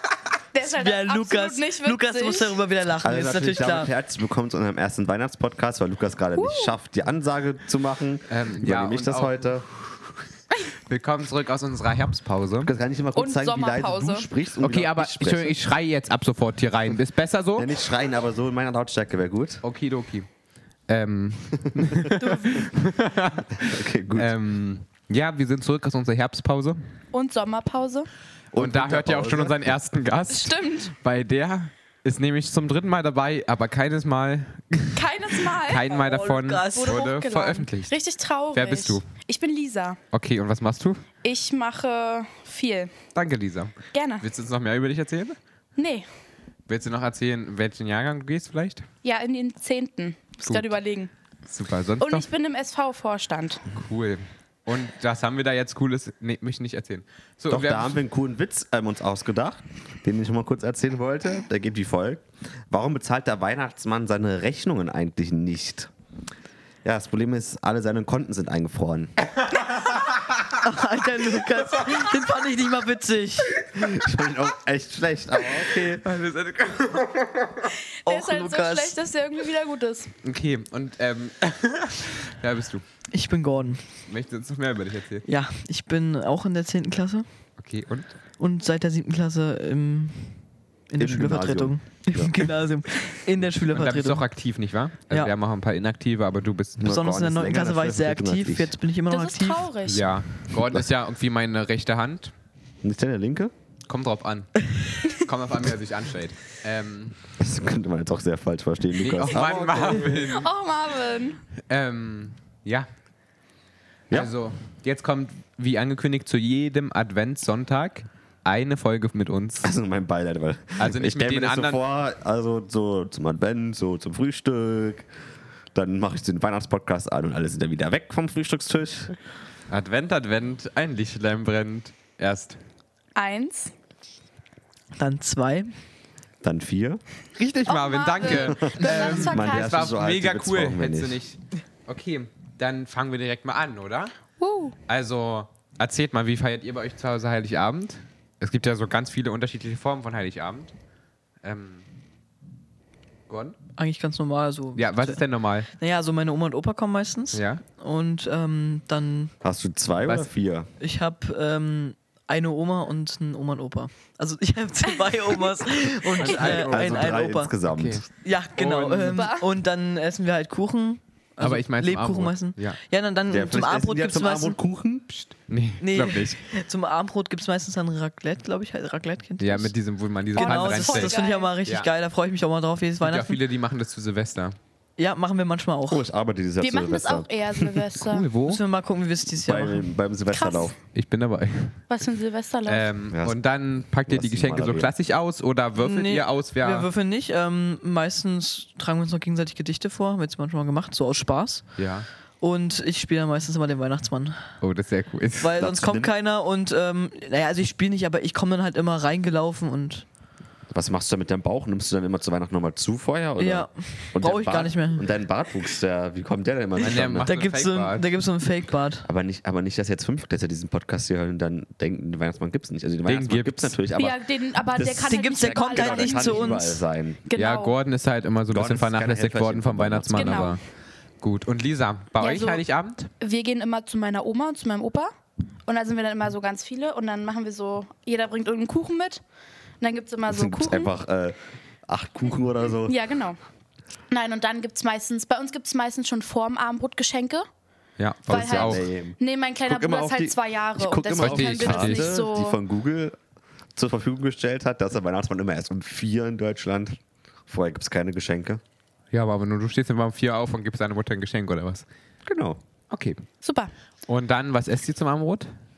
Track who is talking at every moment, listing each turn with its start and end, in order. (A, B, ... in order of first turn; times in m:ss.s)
0:00.5-0:02.6 A
0:00.6-0:03.9 B
0:03.0-0:09.6 C
0:06.4-0:06.7 A
0:08.3-0:09.5 D
0:10.8-0:12.7 D
0:12.6-0:15.6 C
0:13.1-0:14.2 A
0:14.6-0:17.7 D
0:17.6-0:19.6 C
0:19.6-0:20.3 D
0:20.9-0:26.8 D
0:21.7-0:22.1 C
0:22.2-0:22.7 A
0:23.6-0:24.3 C
0:27.1-0:28.1 A
0:28.5-0:29.7 C
0:28.5-0:38.0 D
0:30.3-0:30.9 A
0:34.9-0:35.9 A
0:35.9-0:37.0 B
0:36.7-0:40.0 A
0:38.5-0:39.0 D
0:40.1-0:41.0 D
0:41.2-0:42.9 A
0:43.1-0:45.4 D
0:43.9-0:44.2 A
0:45.8-0:46.0 A
0:46.7-0:48.8 D
0:49.0-0:51.1 A
0:50.4-0:50.7 D
0:51.5-0:52.3 D
0:52.0-0:53.7 A
0:53.7-0:58.0 D
0:57.5-1:05.9 C
1:06.8-1:09.1 C
1:09.4-1:10.4 D
1:10.6-1:13.6 B
1:11.6-1:12.2 D
1:13.6-1:13.9 D
1:13.7-1:16.0 C
1:15.4-1:17.7 D
1:18.0-1:19.0 B
1:18.0-1:20.1 A
1:20.2-1:22.8 D
1:23.1-1:23.8 B
1:24.0-1:25.2 D
1:25.2-1:27.2 B
1:27.6-1:28.1 D
1:28.4-1:34.2 B
1:31.0-1:32.3 C
1:33.7-1:37.0 D
1:36.8-1:38.8 C
1:36.8-1:39.7 B
1:39.1-1:40.0 A
1:39.8-1:42.3 D
1:42.8-1:43.5 C
1:43.9-1:47.2 D
1:47.4-1:50.4 C
1:49.0-1:50.5 D
1:49.9-1:51.4 A
1:51.7-1:52.9 D
1:54.1-1:59.7 D
1:59.6-2:05.1 C
2:00.8-2:01.8 D
2:05.7-2:09.2 C
2:09.7-2:12.6 D
2:13.1-2:13.7 A
2:15.0-2:15.7 B
2:16.4-2:17.0 C
2:17.4-2:24.2 D
2:17.6-2:20.0 A
2:18.6-2:21.2 C
2:24.4-2:24.7 A
2:24.9-2:30.7 D
2:31.4-2:31.8 D
2:33.3-2:33.6 D
2:33.8-2:35.2 B
2:34.7-2:35.7 D
2:35.8-2:39.3 B
2:37.3-2:37.6 D
2:39.4-2:40.7 C
2:40.8-2:47.5 B
2:46.2-2:48.0 C
2:46.2-2:47.0 D
2:47.7-2:49.3 D
2:48.2-2:54.6 B
2:49.2-2:49.4 A
2:51.4-2:52.8 D
2:53.3-2:55.1 C
2:55.1-2:56.4 D
2:55.8-2:59.7 B
2:59.4-3:01.9 D
3:00.3-3:03.4 B
3:00.3-3:01.5 A
3:03.0-3:04.6 D
3:05.0-3:06.0 B
3:05.9-3:07.9 C
3:06.6-3:08.3 A
3:08.0-3:08.6 D
3:08.4-3:09.9 B
3:09.4-3:10.8 C
3:10.3-3:10.7 A
3:10.9-3:11.8 D
3:11.9-3:12.9 A
3:12.6-3:16.9 D
3:13.1-3:13.4 C
3:14.1-3:14.9 C
3:15.8-3:21.7 B
3:21.8-3:22.1 D
3:22.4-3:24.5 B
3:24.6-3:25.6 D
3:25.4-3:30.0 B
3:25.6-3:26.1 C
3:30.7-3:37.3 C
3:33.4-3:35.0 B
3:36.8-3:38.1 D
3:37.2-3:39.1 B
3:39.0-3:47.2 C
3:43.0-3:43.7 D
3:44.0-3:47.7 A
3:45.0-3:46.6 B
3:47.4-3:50.6 D
3:48.5-3:50.6 C
3:50.1-3:50.6 A
3:51.2-3:53.1 D
3:52.2-3:52.6 A
3:53.2-3:55.1 A
3:55.7-3:59.2 A
3:59.8-4:00.9 A
4:00.3-4:03.0 C
4:02.9-4:03.4 A
4:04.1-4:07.5 A
4:08.0-4:08.8 D
4:08.3-4:12.6 A
4:08.3-4:13.2 C
4:11.2-4:12.4 D
4:13.7-4:18.6 C
4:19.1-4:21.8 D
4:22.2-4:22.6 C
4:22.9-4:23.2 D
4:23.4-4:23.7 A
4:24.1-4:25.5 D